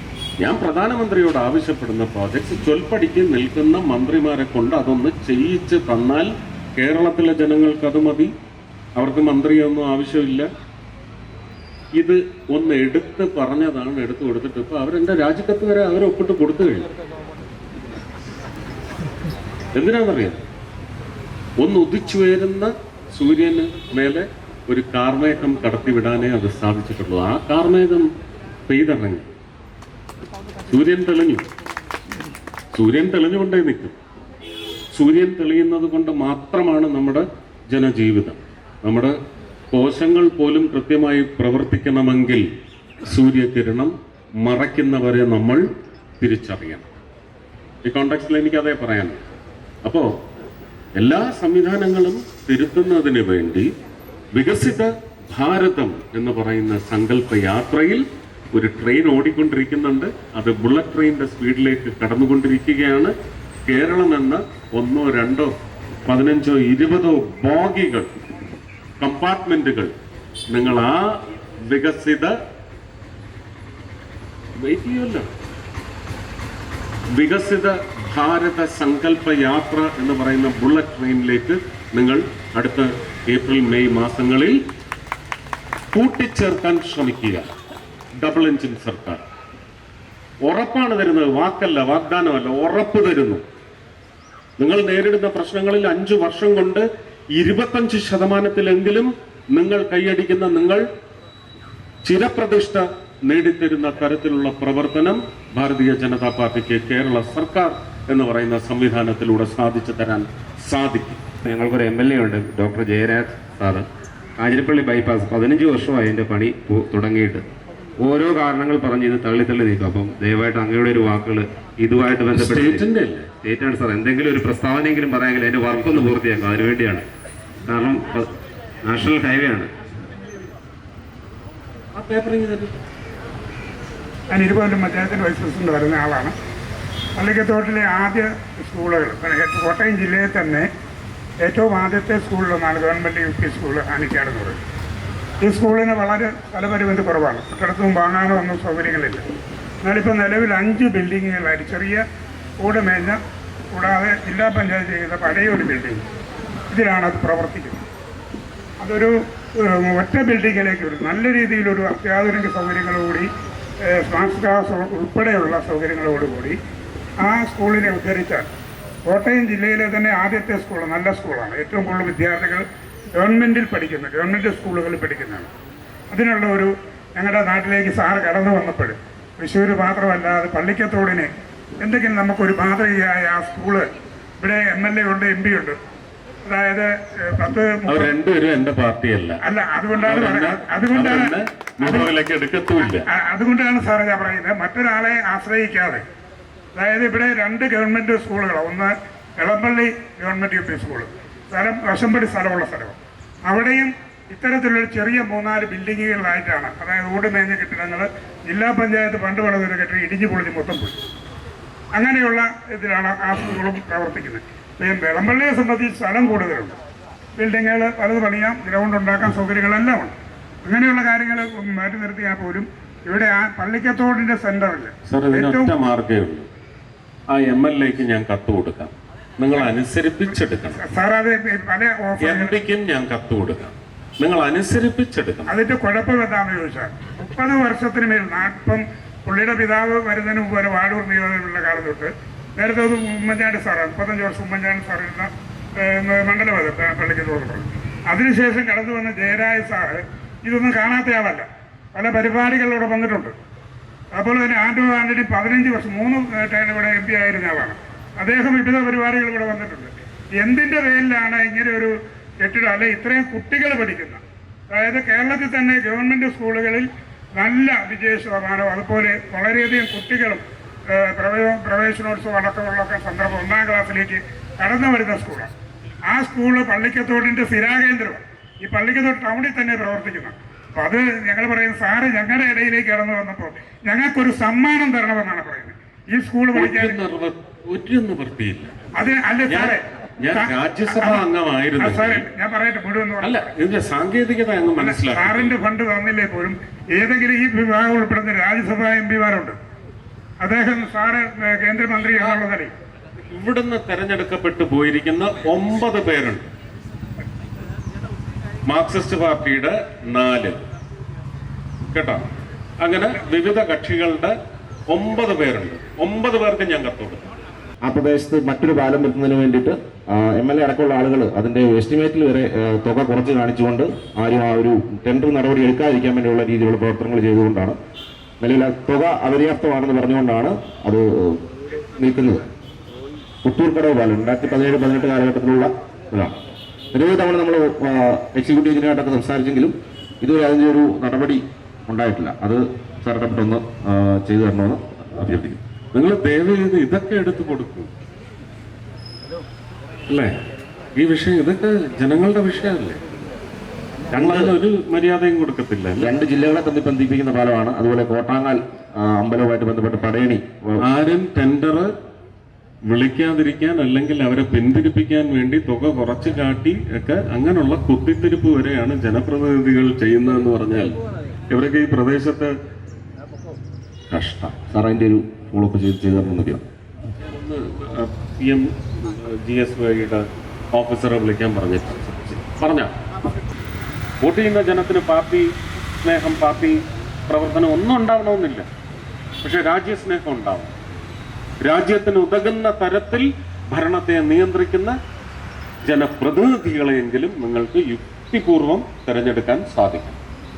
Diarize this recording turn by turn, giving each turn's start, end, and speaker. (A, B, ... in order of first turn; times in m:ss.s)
0:00.4-0:08.3 A
0:09.0-0:10.5 A
0:12.0-0:16.9 A
0:19.7-0:20.4 A
0:21.6-0:28.1 A
0:28.7-0:29.3 A
0:30.7-0:31.4 A
0:32.7-0:33.9 A
0:34.9-0:39.1 A
0:39.7-0:42.4 A
0:43.1-0:45.6 A
0:46.2-0:46.9 A
0:47.8-0:49.2 A
0:49.8-0:50.1 A
0:51.0-0:53.7 A
0:54.4-1:03.1 A
1:03.7-1:05.5 A
1:06.0-1:08.1 A
1:09.0-1:09.9 A
1:10.5-1:12.3 A
1:14.6-1:15.3 A
1:17.2-1:24.6 A
1:25.9-1:27.5 A
1:28.2-1:29.2 A
1:30.4-1:33.4 A
1:34.6-1:40.8 A
1:42.0-1:51.2 A
1:51.4-1:53.9 B
1:54.4-1:57.4 B
1:58.0-2:02.8 B
2:02.3-2:03.3 A
2:03.4-2:07.0 B
2:07.7-2:08.3 B
2:08.8-2:09.7 B
2:11.9-2:12.7 A
2:14.3-2:16.3 C
2:17.2-2:20.6 C
2:21.4-2:24.6 C
2:25.4-2:29.2 C
2:29.8-2:32.0 C
2:32.6-2:33.2 C
2:33.7-2:36.0 C
2:36.7-2:37.8 C
2:38.8-2:43.3 C
2:43.9-2:46.6 C
2:47.2-2:48.5 C
2:49.1-2:52.6 C
2:53.2-2:55.5 C
2:56.1-3:01.3 C
3:01.8-3:03.8 C
3:04.4-3:05.8 C
3:06.4-3:08.1 C
3:07.9-3:09.4 A
3:09.4-3:12.1 C
3:10.0-3:13.0 A
3:13.1-3:16.0 C
3:16.8-3:31.0 C
3:31.9-3:36.8 C
3:37.4-3:45.7 C
3:45.1-3:46.5 A
3:47.3-3:50.8 A
3:50.7-3:52.6 C
3:52.2-3:55.5 A
3:55.5-4:13.3 C
4:14.1-4:24.2 C
4:24.7-4:30.4 C
4:30.9-4:35.5 C
4:36.1-4:47.0 C
4:46.5-4:48.7 A
4:49.0-4:51.2 C
4:49.5-4:52.2 A
4:51.8-4:53.5 C
4:53.2-4:55.6 A
4:54.8-4:59.6 C
5:00.4-5:02.7 C
5:03.3-5:06.5 A
5:08.7-5:10.6 A
5:11.9-5:12.3 A
5:12.8-5:14.3 A
5:14.9-5:17.2 A
5:17.8-5:27.8 D
5:28.4-5:31.4 D
5:32.0-5:32.4 D
5:33.4-5:36.4 D
5:36.9-5:45.6 D
5:45.9-5:47.9 A
5:50.1-5:50.3 A
5:51.0-5:53.0 A
5:54.1-5:54.5 D
5:54.1-5:56.1 A
5:56.0-6:00.8 D
6:00.8-6:01.9 A
6:02.9-6:11.0 A
6:11.5-6:12.5 A
6:14.1-6:14.5 A
6:14.5-6:16.6 D
6:17.2-6:22.9 A
6:24.2-6:28.7 A
6:29.4-6:30.7 A
6:31.6-6:35.0 A
6:35.8-6:40.2 A